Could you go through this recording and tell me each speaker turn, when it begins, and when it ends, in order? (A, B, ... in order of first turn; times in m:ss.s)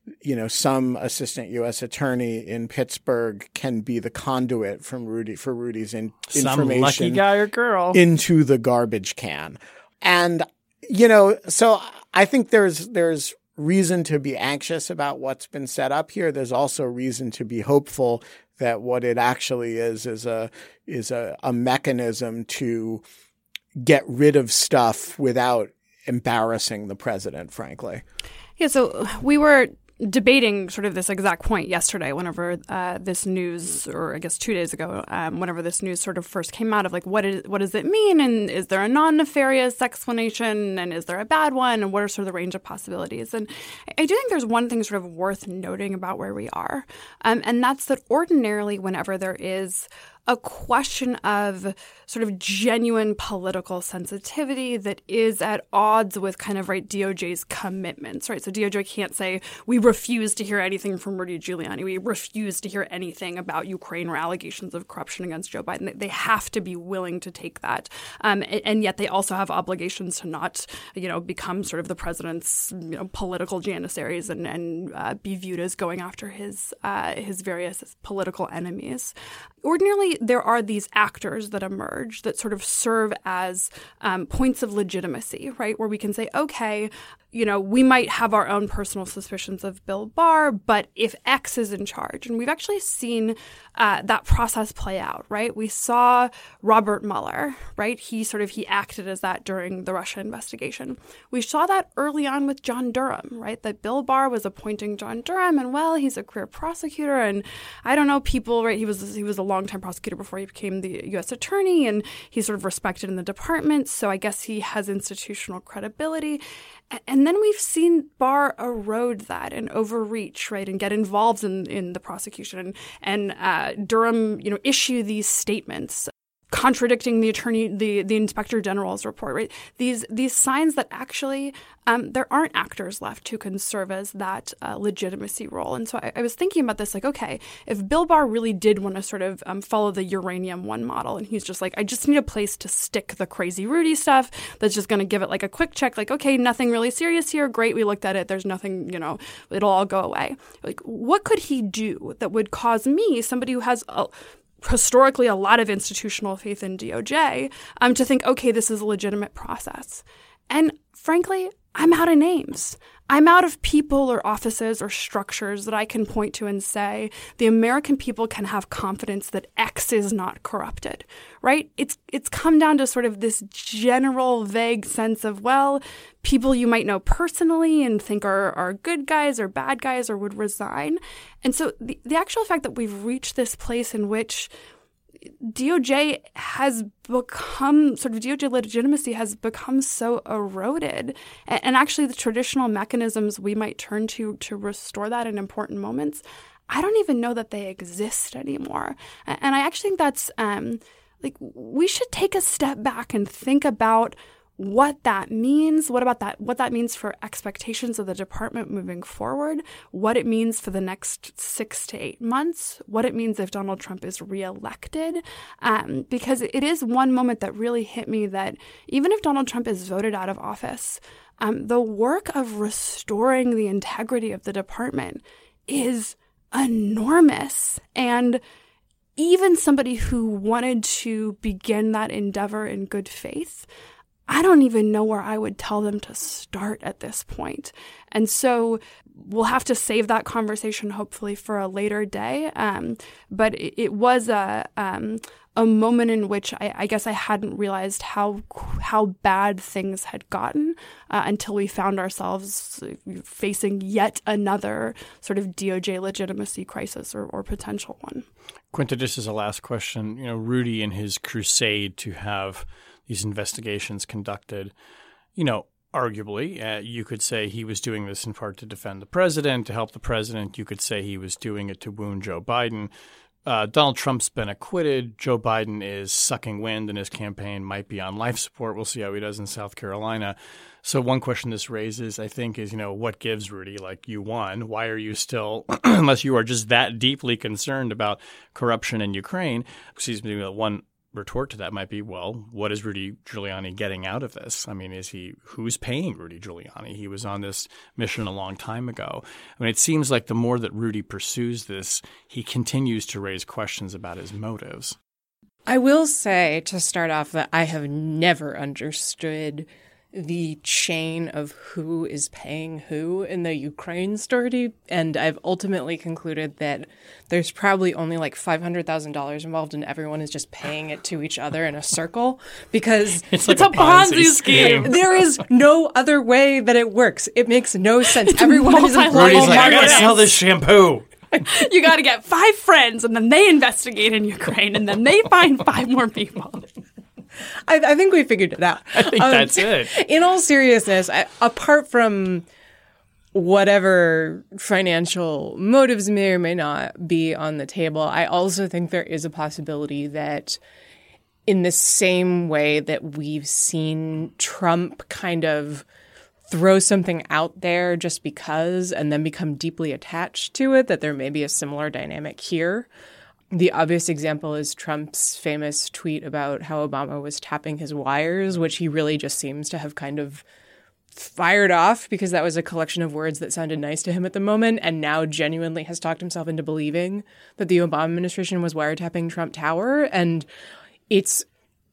0:00.2-0:07.2 A
0:06.3-0:08.0 B
0:07.9-0:23.0 A
0:23.8-0:28.0 A
0:28.6-3:04.5 C
3:05.4-3:48.4 C
3:49.2-3:53.7 C
3:54.3-4:18.2 C
4:18.7-4:24.7 B
4:25.4-4:32.9 B
4:33.4-5:05.0 B
5:05.7-5:23.4 D
5:23.3-5:25.0 B
5:23.4-5:25.0 C
5:24.5-5:30.3 D
5:28.3-5:30.3 C
5:29.1-5:31.1 B
5:31.4-5:36.6 C
5:37.6-5:42.4 D
5:38.9-5:39.9 B
5:43.3-5:50.6 D
5:51.5-5:55.8 D
5:56.5-6:02.9 D
6:03.5-6:10.4 D
6:11.1-6:20.5 D
6:21.1-6:21.4 D